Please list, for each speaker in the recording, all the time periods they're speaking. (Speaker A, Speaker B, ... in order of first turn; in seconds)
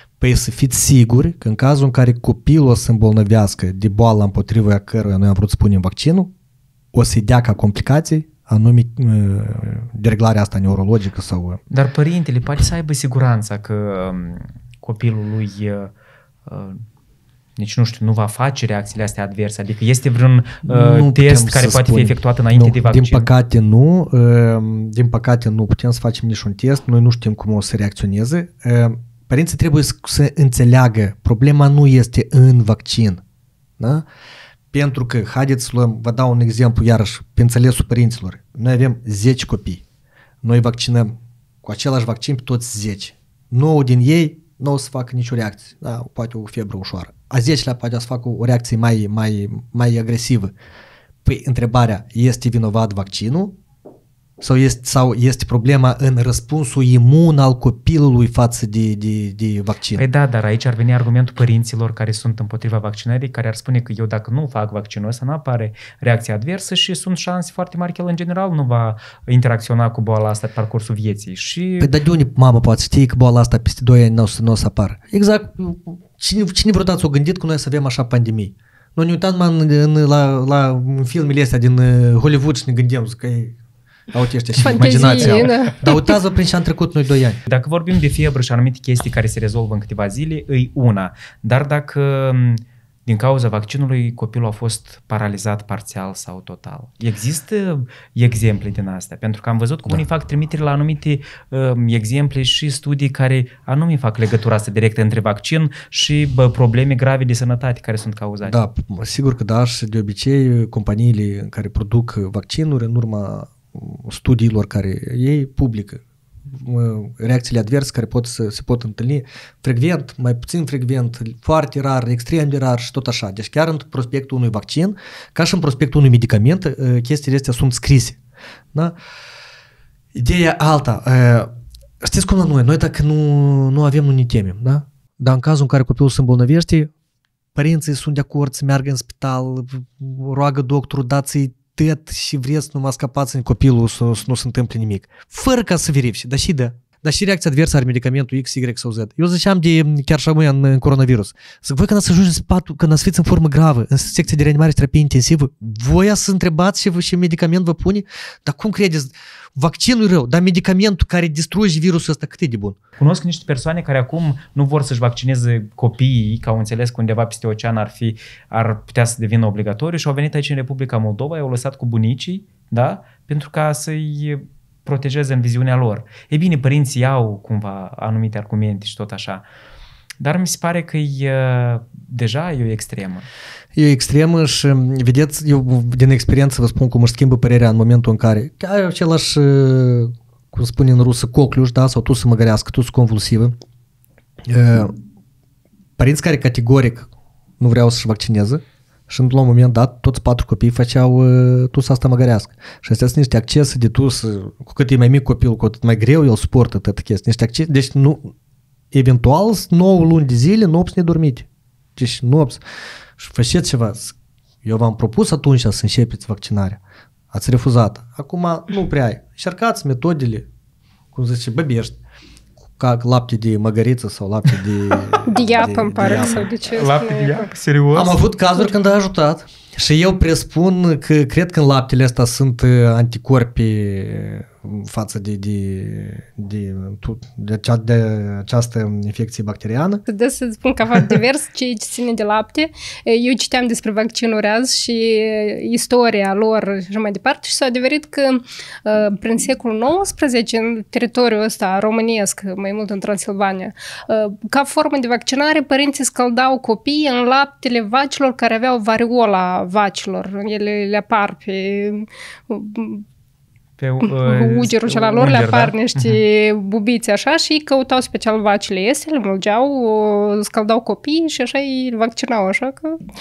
Speaker A: 0.2-6.3, 6.9-11.6, 20.6-33.2, 33.8-34.0, 34.7-39.8, 40.4-50.5, 51.2-53.6, 54.4-60.0, 71.8-83.6, 84.1-87.4, 108.4-128.2, 130.1-131.5, 132.0-136.9, 137.5-162.8, 183.7-193.5, 194.4-194.9, 196.0-208.3, 208.9-212.6, 213.2-220.5, 221.1-222.0, 222.8-226.5, 227.9-240.0
Speaker B: 11.7-15.9, 16.5-16.8, 17.6-23.3, 60.0-71.9, 84.6-85.7, 87.4-108.6, 163.0-179.4, 180.2-183.3, 226.2-228.2, 263.8-266.2
Speaker C: 84.6-86.2, 225.2-227.5, 240.1-263.0, 264.0-273.0